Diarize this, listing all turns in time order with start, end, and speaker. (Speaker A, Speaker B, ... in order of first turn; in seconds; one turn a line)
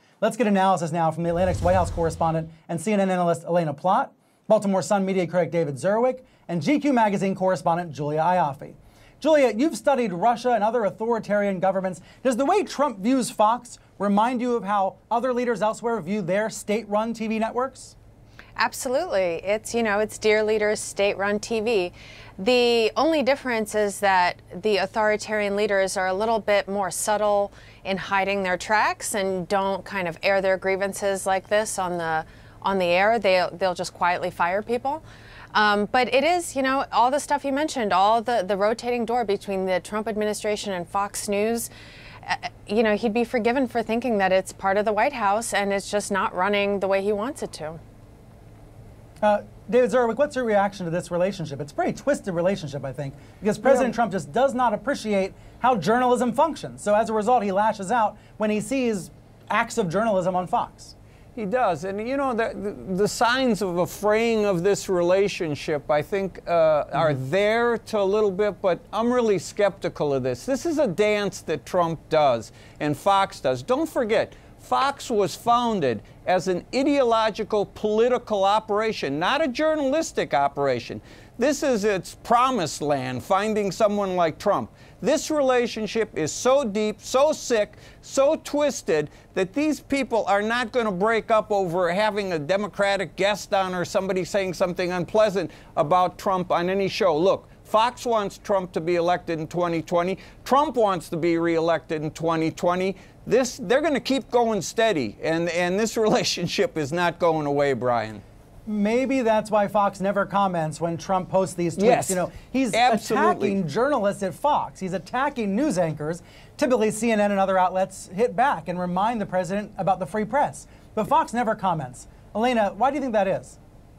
Speaker A: 0.2-17.9
Speaker B: 18.6-41.7
Speaker B: 42.2-47.8
Speaker A: 49.2-60.9
Speaker B: 53.6-53.9
Speaker C: 61.4-108.2
Speaker A: 108.7-123.6
Speaker C: 111.8-113.6